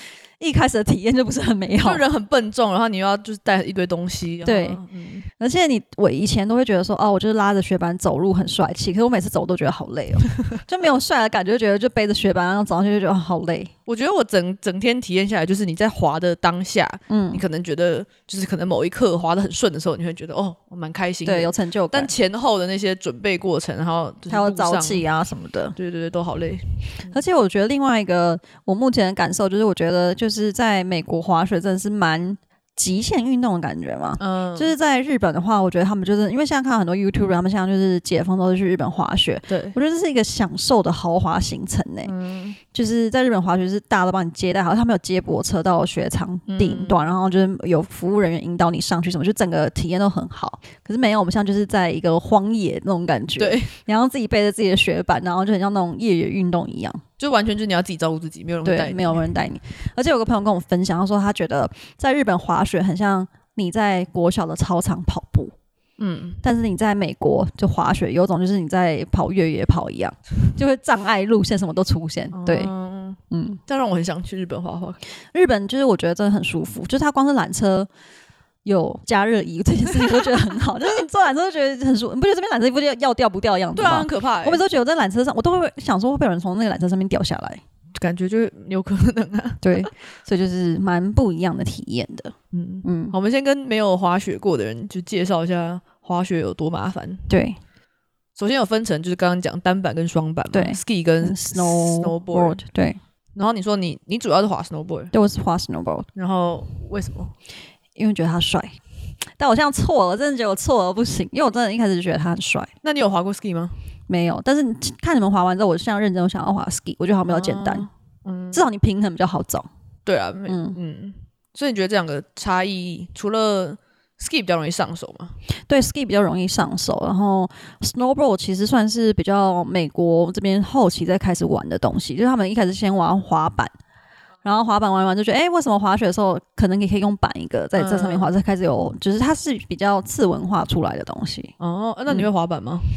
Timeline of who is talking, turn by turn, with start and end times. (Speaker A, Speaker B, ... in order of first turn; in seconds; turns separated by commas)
Speaker A: 0.4-2.0, Speaker B: 1.8-5.3, Speaker A: 4.5-4.8, Speaker A: 5.4-13.7, Speaker B: 13.9-25.0, Speaker A: 17.1-17.4, Speaker A: 21.2-22.1, Speaker A: 24.3-25.8, Speaker B: 25.8-27.1, Speaker A: 27.1-42.1, Speaker B: 34.2-34.7, Speaker B: 39.5-39.8, Speaker B: 42.0-42.6, Speaker A: 42.7-57.0, Speaker B: 46.5-47.0, Speaker B: 53.4-53.7, Speaker B: 57.2-59.2, Speaker A: 58.6-65.5, Speaker B: 66.0-66.4, Speaker A: 66.4-72.7, Speaker B: 72.3-75.0, Speaker A: 73.3-73.6, Speaker A: 75.3-77.9, Speaker A: 78.6-87.6, Speaker B: 83.8-84.6, Speaker B: 88.0-89.9, Speaker A: 89.6-93.1, Speaker B: 92.5-97.3, Speaker A: 97.3-97.6, Speaker B: 98.4-102.6, Speaker A: 100.5-103.0, Speaker B: 103.4-105.1, Speaker A: 105.1-106.1, Speaker B: 106.2-107.3, Speaker A: 108.0-108.8, Speaker A: 109.4-112.7, Speaker B: 112.8-113.7, Speaker A: 114.1-117.9, Speaker B: 117.3-118.7, Speaker A: 118.5-119.7, Speaker B: 120.1-125.3, Speaker A: 120.5-120.8, Speaker A: 125.7-133.7, Speaker A: 134.4-141.5, Speaker B: 137.8-138.3, Speaker B: 141.6-142.9